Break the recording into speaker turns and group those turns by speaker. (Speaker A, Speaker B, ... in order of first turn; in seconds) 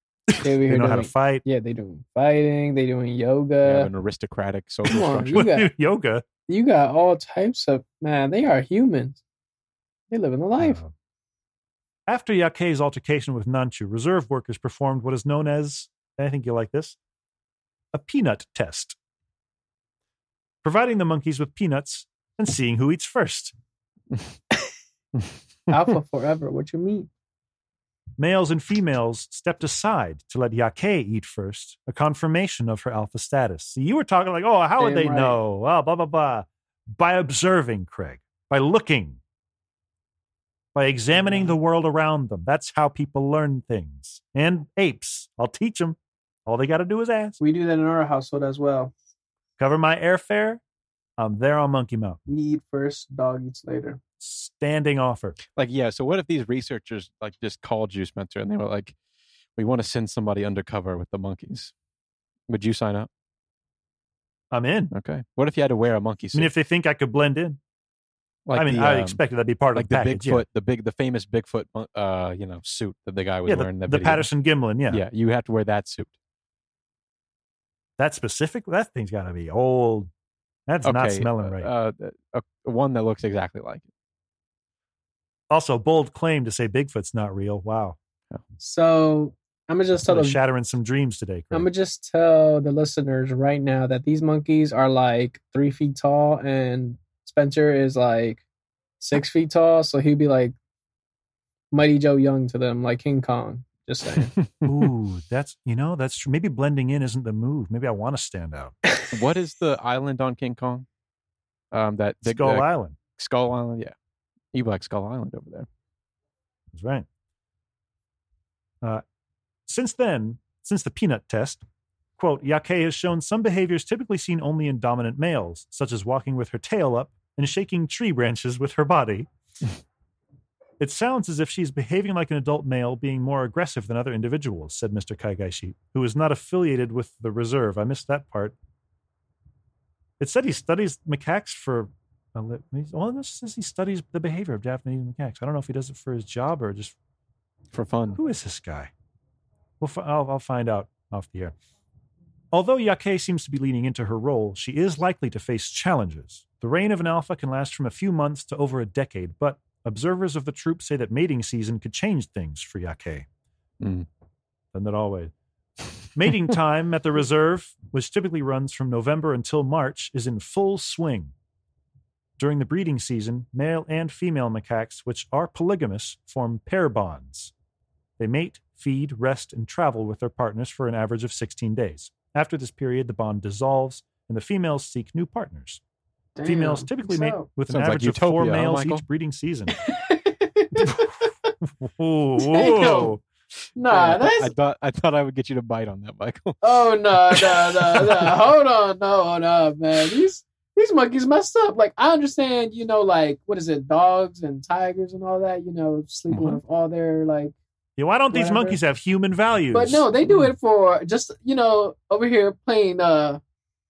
Speaker A: 0.3-1.4, 5.3-6.2, 10.6-10.9, 12.1-17.0, 17.9-18.9, 20.6-23.5, 28.2-39.2, 40.7-47.4, 49.6-50.6, 51.2-52.2, 54.2-55.4, 64.5-64.9, 66.3-67.6, 68.5-70.4, 73.5-75.0, 78.0-80.1, 80.7-81.7, 85.5-88.0, 90.1-91.7, 104.6-108.8, 112.2-113.0, 116.7-117.0, 119.7-121.6, 122.2-129.3, 130.8-138.5, 140.2-146.9, 148.2-148.9, 149.8-151.5, 152.5-163.2, 164.7-165.3, 166.1-171.3, 172.4-177.5, 178.2-185.8, 186.4-189.8, 190.8-191.1, 191.7-193.2, 208.0-210.0
Speaker B: 0.4-3.9, 4.9-5.7, 6.5-9.2, 10.1-10.8, 25.7-27.1, 34.8-35.4, 41.1-41.5, 47.4-48.9, 52.3-54.0, 88.6-90.4, 91.5-98.4, 99.0-100.5, 101.7-104.3, 186.3-187.5, 189.8-191.3, 192.4-193.2, 193.8-194.5, 196.6-207.5, 208.3-208.8, 209.7-213.4
Speaker C: 3.6-5.3, 55.4-59.0, 59.5-61.7, 62.5-63.1, 64.9-66.5, 68.5-69.2, 69.7-74.3, 74.9-76.1, 80.8-83.9, 104.2-104.7, 109.1-110.8, 111.7-112.7, 113.2-113.9, 114.5-115.7, 147.7-148.2, 163.8-164.1, 187.7-189.0, 193.9-198.3, 206.3-206.6